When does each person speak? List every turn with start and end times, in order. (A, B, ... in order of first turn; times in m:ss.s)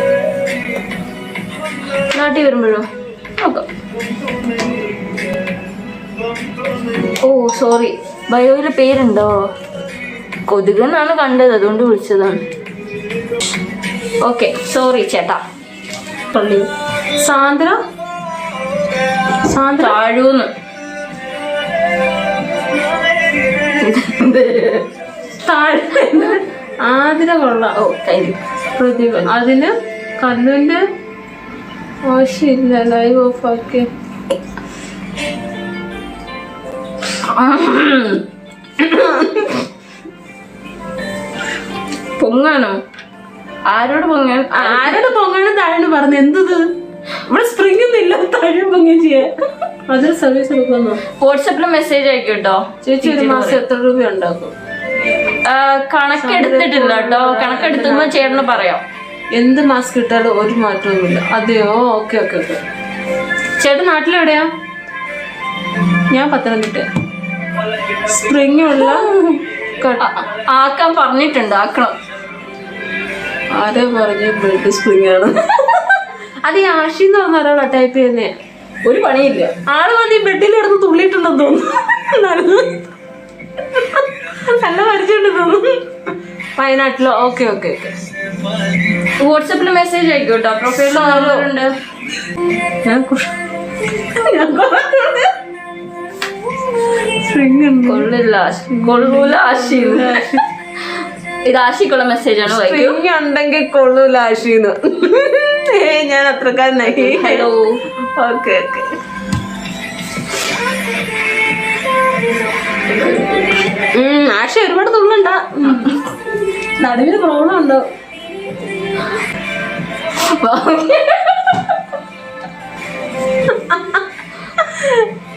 0:02.1-0:02.9 A
0:03.4-0:03.7 A
0:07.2-0:09.4 A
0:10.5-0:12.4 A
0:14.2-0:15.4 A
0:16.3-0:17.8 B
0:19.5-0:20.0 B
0:19.8-0:20.5 A
0:23.8-0:24.9 A
0:25.4-0:27.8 B
0:27.8-0:28.4 A
0:28.8-0:30.8 B
0:32.0-0:33.9 B
0:37.2-0:38.3 A
0:38.8-0:39.5 A
0:42.2-0:42.8 A
0:43.7-0:45.1 A
0:44.5-0:46.6 B
0:47.3-0:49.4 B
0:49.9-0:51.0 B
0:51.2-0:53.6 A
0:52.8-0:54.5 B
0:55.3-0:58.8 A
0:56.2-0:58.5 B
0:59.3-1:02.6 B
1:03.6-1:04.5 B
1:06.1-1:06.9 B
1:08.0-1:09.1 B
1:08.8-1:09.4 A
1:09.8-1:10.2 B
1:10.0-1:11.9 A
1:13.5-1:18.3 B
1:18.8-1:19.5 A
1:19.7-1:22.8 B
1:23.7-1:25.8 B
1:26.6-1:28.0 B
1:29.2-1:31.7 A
1:30.8-1:31.5 B
1:32.8-1:35.3 B
1:37.1-1:38.1 B
1:37.9-1:40.2 A
1:38.7-1:40.4 B
1:41.4-1:43.0 A
1:42.5-1:47.5 B
1:46.8-1:48.9 A
1:52.9-1:53.5 A
1:53.9-1:56.1 B
1:56.8-1:57.8 B
2:00.1-2:01.8 A
2:03.5-2:04.0 B
2:04.6-2:05.1 B